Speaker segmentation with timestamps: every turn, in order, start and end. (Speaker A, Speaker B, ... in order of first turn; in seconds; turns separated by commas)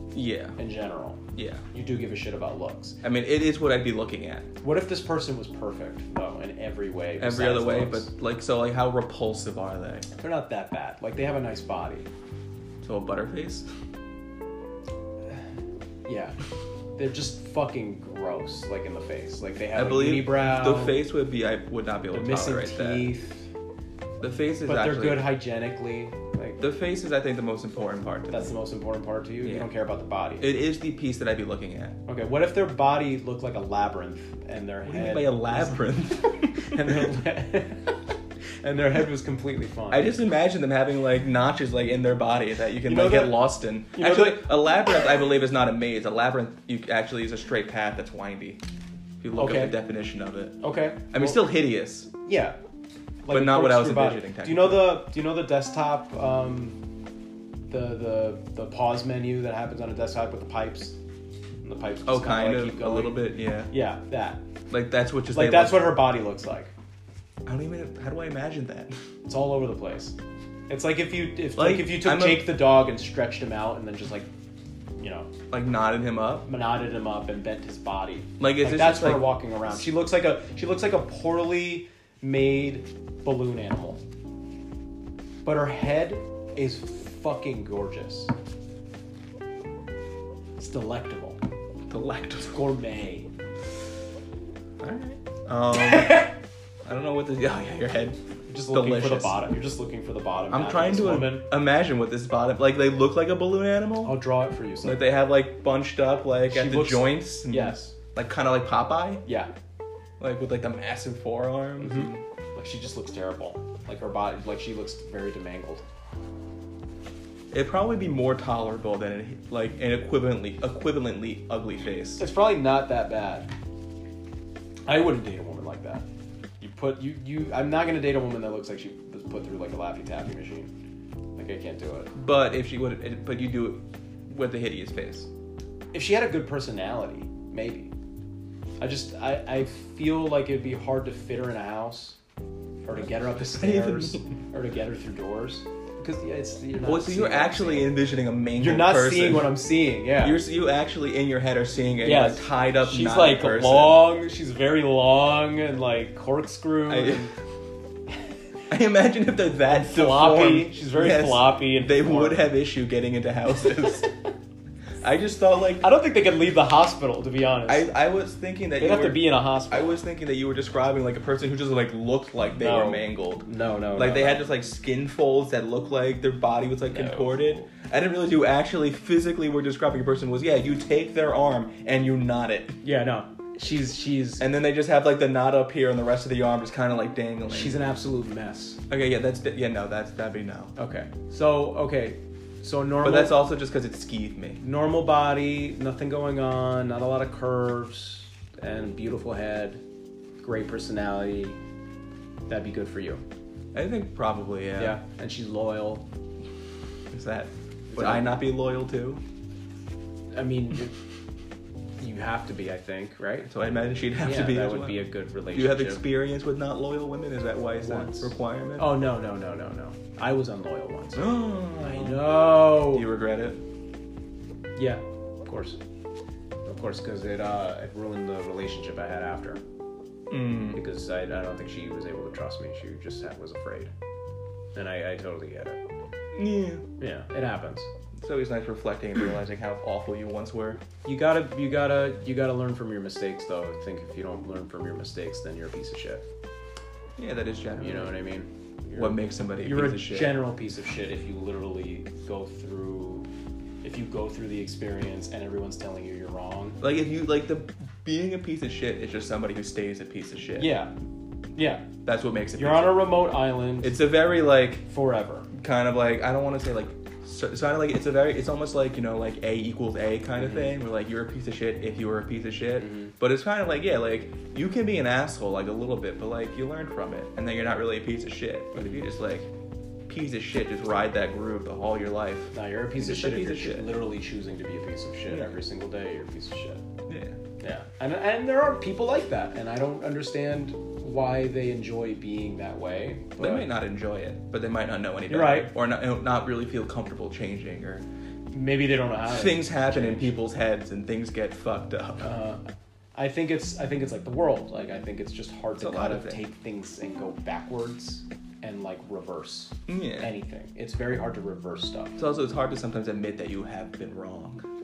Speaker A: 0.1-0.6, Speaker B: 0.6-3.0, Speaker A: 1.3-1.6, Speaker A: 3.0-4.5, Speaker B: 4.6-8.1, Speaker A: 7.2-10.1, Speaker B: 10.2-12.1, Speaker A: 12.8-13.7, Speaker B: 16.0-16.4, Speaker B: 16.9-21.0, Speaker A: 19.7-23.1, Speaker B: 22.1-23.5, Speaker A: 24.2-25.3, Speaker B: 24.6-26.6, Speaker A: 26.6-28.5, Speaker B: 28.3-30.5, Speaker A: 29.4-29.7, Speaker A: 30.4-32.0, Speaker B: 32.1-35.8, Speaker A: 34.8-36.9, Speaker B: 36.6-38.0, Speaker B: 38.6-40.1, Speaker A: 39.9-48.6, Speaker B: 42.9-44.5, Speaker A: 49.2-50.6, Speaker B: 49.4-49.8, Speaker B: 50.6-51.4, Speaker A: 51.1-52.1, Speaker B: 52.2-52.6, Speaker B: 53.2-56.8, Speaker A: 53.3-55.0, Speaker B: 57.7-61.0, Speaker B: 61.6-64.4, Speaker A: 62.0-63.7, Speaker A: 64.7-66.0, Speaker B: 65.3-66.7, Speaker A: 67.5-68.9, Speaker B: 69.2-70.1, Speaker B: 70.7-74.3, Speaker A: 71.5-72.5, Speaker B: 75.0-75.3, Speaker A: 75.5-76.5, Speaker B: 76.5-84.0, Speaker A: 78.4-79.3, Speaker B: 85.4-88.3, Speaker B: 90.6-91.4, Speaker A: 91.9-92.6, Speaker B: 92.5-93.3, Speaker A: 94.8-98.2, Speaker B: 98.5-101.5, Speaker A: 98.7-99.5, Speaker A: 100.5-104.2, Speaker B: 104.0-105.1, Speaker A: 104.8-109.2, Speaker B: 106.5-107.9, Speaker B: 109.2-109.5, Speaker A: 110.2-112.2, Speaker B: 111.8-115.8, Speaker A: 117.5-122.2, Speaker B: 122.2-123.5, Speaker B: 124.9-126.0, Speaker B: 126.6-130.7, Speaker B: 131.4-132.1, Speaker A: 132.1-135.3, Speaker B: 135.9-137.9, Speaker B: 138.8-142.2, Speaker B: 142.8-147.9, Speaker A: 143.4-144.3, Speaker A: 146.8-149.6, Speaker B: 148.6-150.4, Speaker A: 150.2-154.1, Speaker B: 152.0-157.3, Speaker A: 156.9-157.3, Speaker A: 158.7-164.1, Speaker B: 159.6-162.4, Speaker A: 165.0-165.9, Speaker B: 165.8-167.9, Speaker A: 167.7-182.8, Speaker B: 168.8-170.0, Speaker B: 172.6-174.4, Speaker B: 176.9-177.6, Speaker B: 182.8-184.4, Speaker A: 184.4-187.8, Speaker B: 187.5-188.8, Speaker A: 188.9-190.7, Speaker B: 190.8-193.4, Speaker A: 193.0-194.6, Speaker B: 194.6-199.8, Speaker B: 200.4-201.6, Speaker B: 202.5-203.2, Speaker A: 203.7-205.0, Speaker B: 204.8-206.0, Speaker A: 207.1-209.2, Speaker B: 207.9-208.3, Speaker B: 210.3-210.9, Speaker B: 212.0-213.5, Speaker A: 213.4-219.0, Speaker B: 214.2-216.0, Speaker B: 217.8-223.1, Speaker A: 221.1-223.6, Speaker B: 224.8-225.8, Speaker B: 226.7-229.6, Speaker A: 230.3-230.8, Speaker B: 230.7-233.9, Speaker B: 234.7-235.8, Speaker A: 236.3-236.8, Speaker B: 237.0-237.9, Speaker A: 238.2-240.8, Speaker B: 241.0-246.2, Speaker A: 247.2-248.1, Speaker B: 247.8-253.3, Speaker A: 248.9-250.4, Speaker B: 253.8-256.8, Speaker A: 256.8-260.7, Speaker B: 260.6-260.9, Speaker B: 261.6-261.9, Speaker A: 262.0-263.1, Speaker B: 262.6-263.9, Speaker A: 263.8-264.8, Speaker B: 264.9-265.5, Speaker A: 265.5-279.5, Speaker B: 270.4-270.7, Speaker B: 272.8-273.1, Speaker A: 280.1-283.9, Speaker B: 282.5-286.8, Speaker A: 285.3-285.6, Speaker A: 287.1-287.4, Speaker B: 287.6-293.7, Speaker A: 293.4-298.0, Speaker B: 295.3-295.7, Speaker B: 298.5-300.3, Speaker A: 299.3-302.3, Speaker B: 302.2-302.6, Speaker B: 303.1-312.1, Speaker A: 305.8-306.4, Speaker A: 309.9-310.3, Speaker A: 312.2-314.6